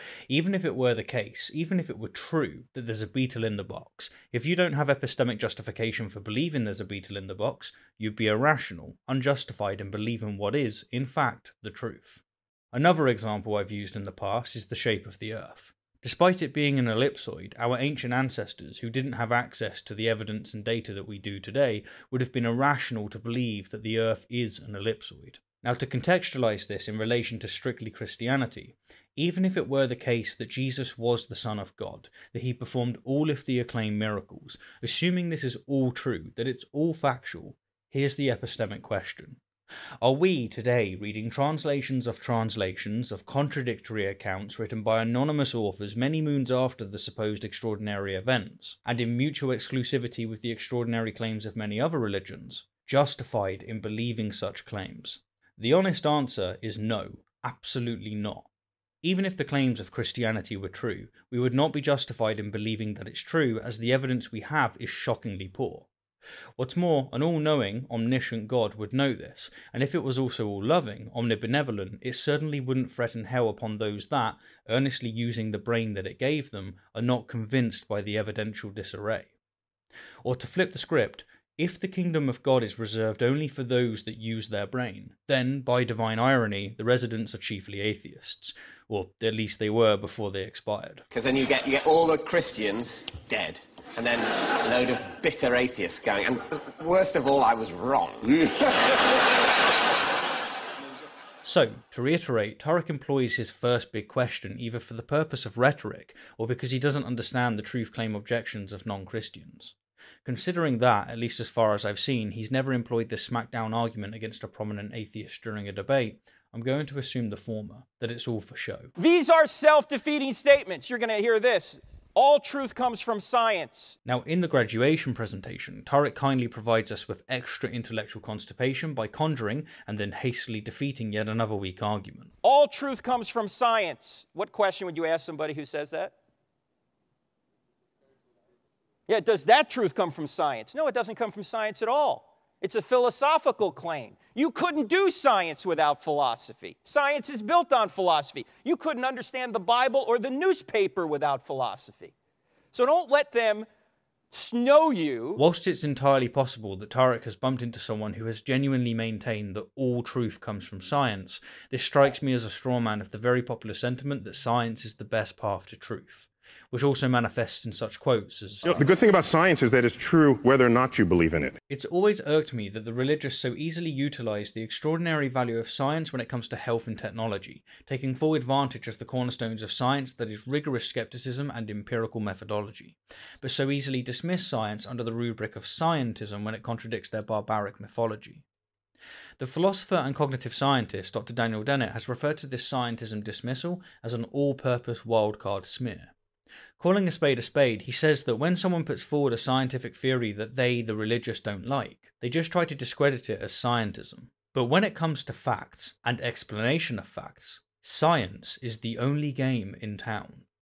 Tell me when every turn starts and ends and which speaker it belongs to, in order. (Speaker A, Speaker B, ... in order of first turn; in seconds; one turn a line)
Speaker A: 0.3-39.4
Speaker A: 40.0-58.5
Speaker A: 59.0-65.9
Speaker A: 66.6-79.3
Speaker A: 80.2-91.0
Speaker B: 91.1-99.0
Speaker A: 101.4-118.9
Speaker C: 119.0-124.0
Speaker A: 124.1-132.3
Speaker C: 132.4-136.1
Speaker C: 139.1-152.1
Speaker C: 152.7-153.7
Speaker C: 154.3-155.4
Speaker A: 155.4-168.9
Speaker D: 168.7-171.6
Speaker A: 171.7-188.4
Speaker A: 189.4-196.1
Speaker A: 196.8-210.5